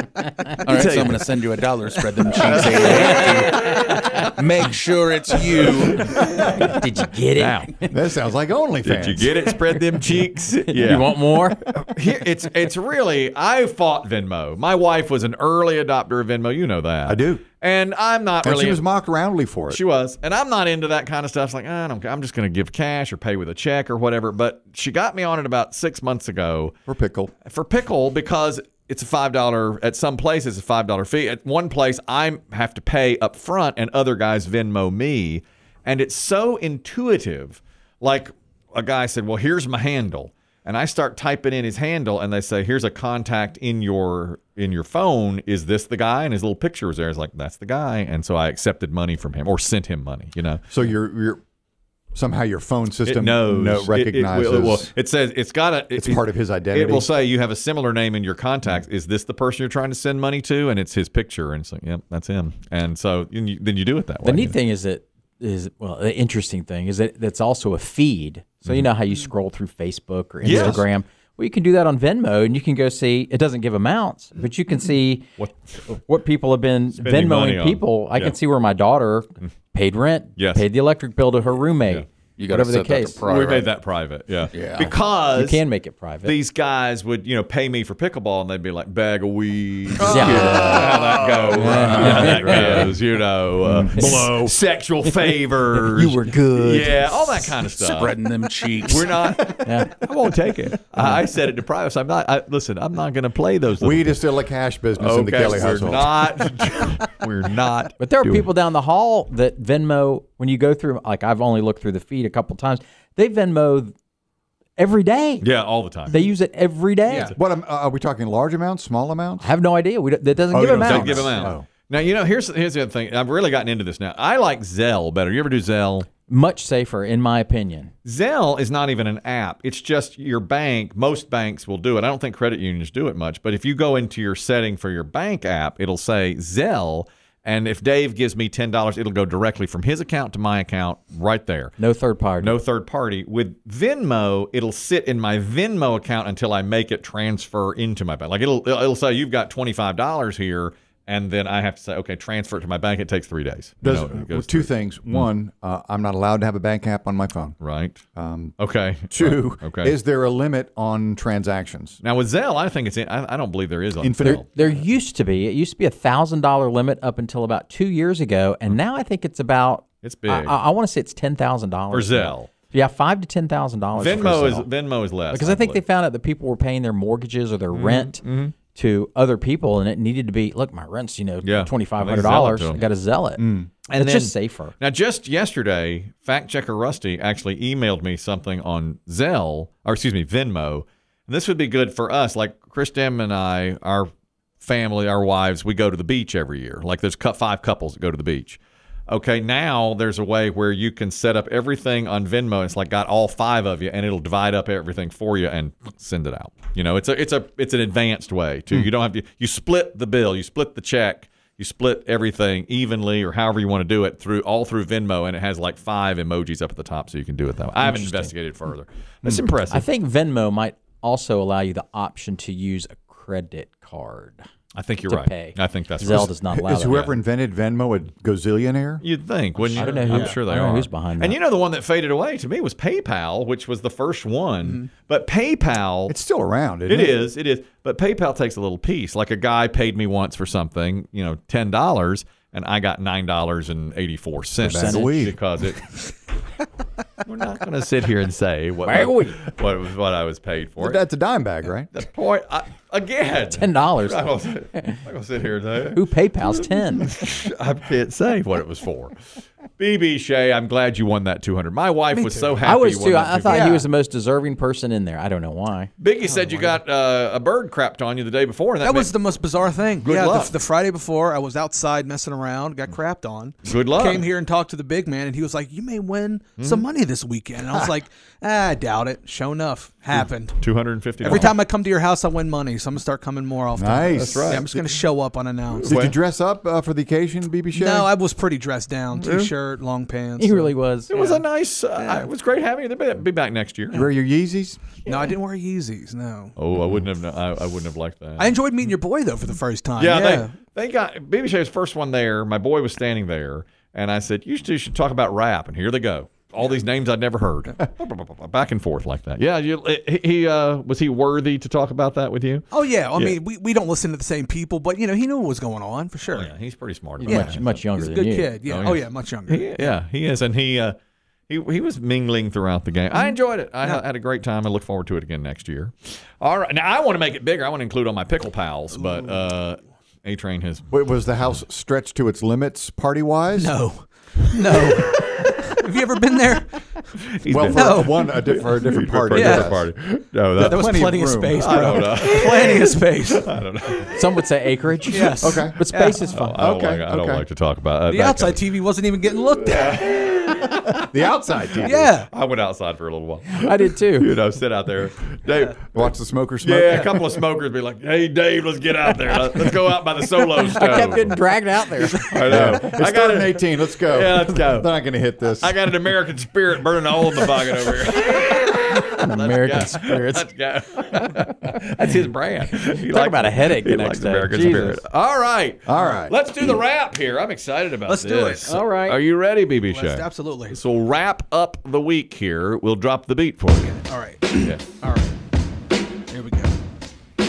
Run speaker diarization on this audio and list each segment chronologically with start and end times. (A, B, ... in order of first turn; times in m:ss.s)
0:00.6-0:06.1 A
0:00.6-0:01.3 B
0:02.3-0:03.9 B
0:05.6-0:06.8 B
0:06.4-0:07.9 C
0:07.4-0:07.8 B
0:07.9-0:09.3 D
0:08.8-0:18.8 B
0:10.7-0:11.6 C
0:17.1-0:17.4 D
0:18.4-0:19.8 D
0:19.7-0:26.8 B
0:26.9-0:27.3 D
0:27.4-0:50.7 B
0:50.7-0:51.4 D
0:52.1-0:54.9 D
0:53.0-1:04.6 B
0:56.0-0:57.1 D
1:04.2-1:15.3 C
1:10.4-1:10.9 B
1:10.4-1:10.8 D
1:15.4-1:15.8 B
1:15.9-1:23.2 C
1:17.0-1:18.4 B
1:20.4-1:20.6 B
1:22.4-1:23.7 A
1:23.2-1:25.6 B
1:24.5-1:24.9 A
1:25.3-1:26.4 C
1:26.2-1:38.2 B
1:30.0-1:30.9 C
1:30.1-1:32.9 A
1:30.2-1:32.3 D
1:31.6-1:32.8 C
1:33.6-1:34.5 D
1:35.9-1:37.5 D
1:37.7-1:39.2 A
1:38.8-1:44.2 B
1:39.6-1:39.9 C
1:43.8-1:46.3 D
1:45.0-1:48.5 B
1:48.0-1:53.9 C
1:54.8-1:55.5 C
1:55.4-1:56.2 B
1:56.1-1:57.3 C
1:57.1-1:57.3 E
1:57.4-1:59.5 D
1:59.4-2:01.5 C
2:00.5-2:01.7 D
2:00.8-2:06.1 B
2:06.3-2:07.9 C
2:08.0-2:21.8 B
2:21.8-2:22.6 C
2:22.4-2:35.3 B
2:33.8-2:37.6 D
2:37.6-2:38.0 B
2:38.2-2:38.6 D
2:38.6-2:40.0 B
2:39.1-2:42.0 D
2:42.0-2:44.8 B
2:44.0-2:44.4 D
2:44.2-2:54.7 C
2:50.0-2:50.6 B
2:51.9-2:52.5 B
2:54.0-2:55.8 B
2:55.3-3:04.7 C
2:57.7-2:58.6 B
3:01.4-3:02.8 B
3:03.4-3:03.7 D
3:03.9-3:14.1 B
3:14.6-3:39.9 B
3:37.8-3:38.3 C
3:39.7-3:44.4 C
3:44.7-3:46.4 B
3:45.1-3:47.1 C
3:46.1-3:49.1 D
3:49.0-3:56.2 B
3:49.7-3:51.4 C
3:49.8-3:50.4 E
3:54.6-3:54.9 E
3:56.1-3:57.2 D
3:56.9-4:06.0 B
4:04.6-4:05.4 D
4:04.6-4:05.2 C
4:07.2-4:11.0 B
4:08.8-4:09.4 C
4:10.8-4:11.9 D
4:11.9-4:19.2 B
4:13.5-4:14.3 C
4:15.9-4:17.1 C
4:19.8-4:23.7 B
4:22.1-4:22.6 E
4:22.6-4:25.9 C
4:23.5-4:23.9 E
4:26.0-4:29.2 B
4:26.2-4:26.8 E
4:28.8-4:40.6 E
4:30.0-4:30.6 B
4:33.7-4:34.3 B
4:36.6-4:36.8 B
4:40.6-4:41.6 B
4:41.2-4:46.0 E
4:43.7-4:45.0 D
4:44.1-4:44.7 B
4:45.7-4:46.2 B
4:45.8-4:48.1 D
4:47.8-4:52.3 E
4:50.4-4:51.1 C
4:51.1-4:54.1 B
4:53.9-4:54.8 D
4:55.0-4:55.3 B
4:55.1-4:56.5 E
4:56.6-4:58.9 B
4:58.4-5:00.5 E
5:00.0-5:13.4 B
5:12.7-5:16.5 E
5:16.2-5:17.9 B
5:17.2-5:18.6 C
5:17.2-5:20.0 E
5:18.6-5:21.0 B
5:21.5-5:30.9 B
5:23.1-5:24.0 E
5:30.9-5:33.8 D
5:33.6-5:36.8 E
5:37.3-5:40.9 B
5:37.5-5:39.9 D
5:37.7-5:38.2 E
5:39.3-5:39.7 E
5:40.6-5:41.9 D
5:40.6-5:43.6 E
5:41.6-5:44.1 B
5:44.1-5:46.8 C
5:45.1-5:46.3 E
5:45.4-5:45.8 D
5:46.3-5:48.6 B
5:46.6-5:47.4 D
5:48.1-5:50.3 E
5:49.8-5:51.0 B
5:51.0-5:52.1 D
5:51.8-5:52.3 E
5:52.3-5:55.9 B
5:53.5-5:54.3 C
5:55.9-5:57.4 D
5:56.6-6:01.4 B
6:00.7-6:02.7 C
6:02.0-6:05.0 B
6:02.4-6:05.8 D
6:05.6-6:24.0 B
6:09.0-6:10.5 C
6:12.9-6:15.0 C
6:15.9-6:16.4 D
6:18.0-6:18.8 E
6:18.6-6:19.2 C
6:19.9-6:20.8 E
6:23.8-6:25.3 E
6:24.5-6:24.9 B
6:26.3-6:26.7 E